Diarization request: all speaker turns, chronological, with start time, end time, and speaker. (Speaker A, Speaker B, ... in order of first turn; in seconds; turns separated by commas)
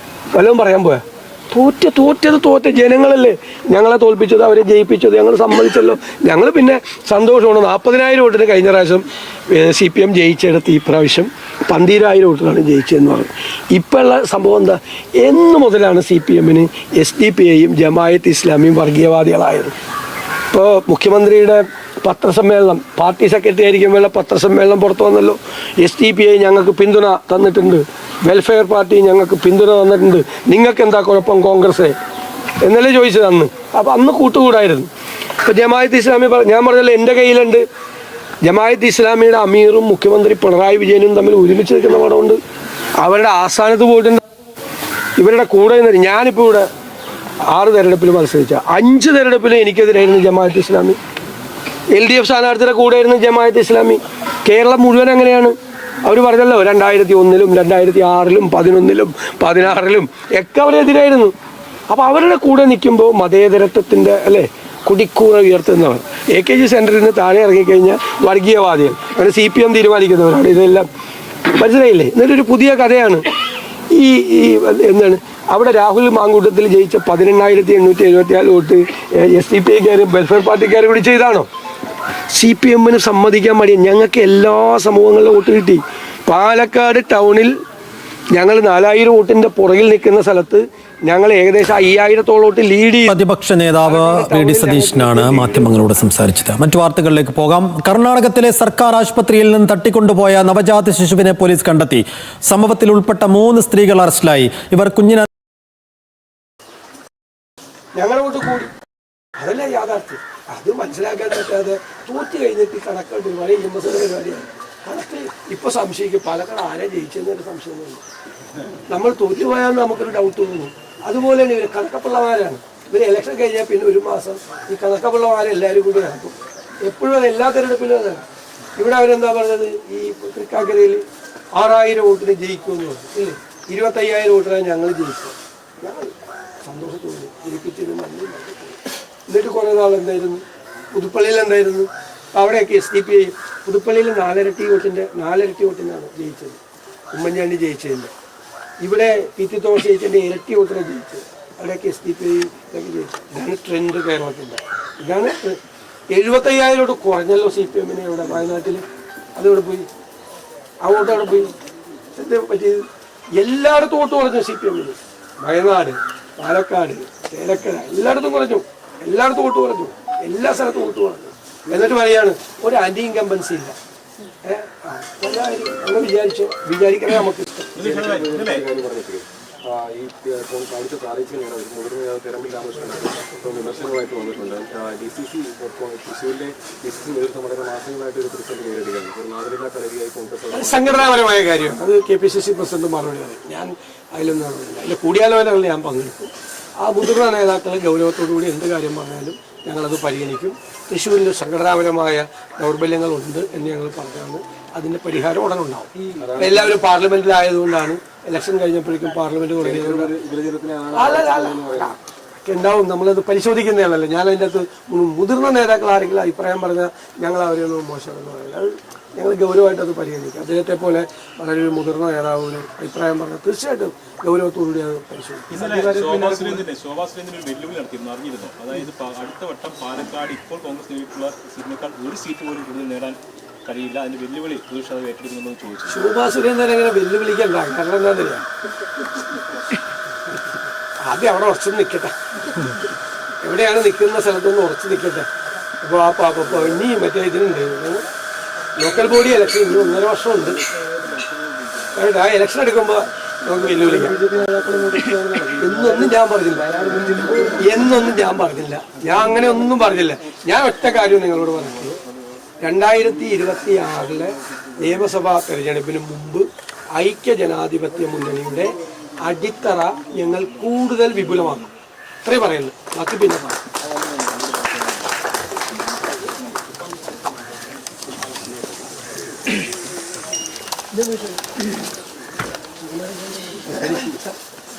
Speaker A: 0.3-19.8, Speaker A: 20.5-32.0, Speaker A: 32.6-34.9, Speaker A: 35.4-37.6, Speaker A: 38.4-42.4, Speaker A: 43.0-44.2, Speaker A: 45.2-46.7, Speaker A: 47.5-51.0, Speaker A: 51.9-61.3, Speaker A: 61.9-70.9, Speaker A: 71.5-73.3, Speaker A: 73.9-81.5, Speaker A: 82.3-87.5, Speaker A: 88.3-93.2, Speaker B: 93.1-105.3, Speaker A: 93.8-96.2, Speaker A: 108.0-108.7, Speaker A: 109.4-118.0, Speaker A: 118.9-128.2, Speaker A: 128.8-131.0, Speaker A: 131.6-140.4, Speaker A: 140.9-146.6, Speaker A: 147.1-148.1, Speaker A: 148.8-155.6, Speaker A: 156.1-158.8, Speaker A: 159.4-159.9, Speaker A: 160.8-161.5, Speaker A: 162.2-162.8, Speaker A: 163.4-173.8, Speaker A: 174.4-177.7, Speaker C: 177.8-178.7, Speaker D: 177.8-191.2, Speaker A: 190.5-210.1, Speaker D: 206.1-206.8, Speaker D: 209.6-212.0, Speaker A: 210.9-226.6, Speaker C: 225.5-236.1, Speaker A: 235.9-238.4, Speaker A: 241.0-242.1, Speaker A: 243.4-245.3, Speaker A: 245.8-248.1, Speaker A: 248.8-250.6, Speaker A: 251.9-254.2, Speaker D: 253.8-257.7, Speaker A: 255.2-256.7, Speaker A: 257.5-262.0, Speaker A: 262.6-271.7, Speaker A: 272.2-273.6, Speaker A: 283.4-284.2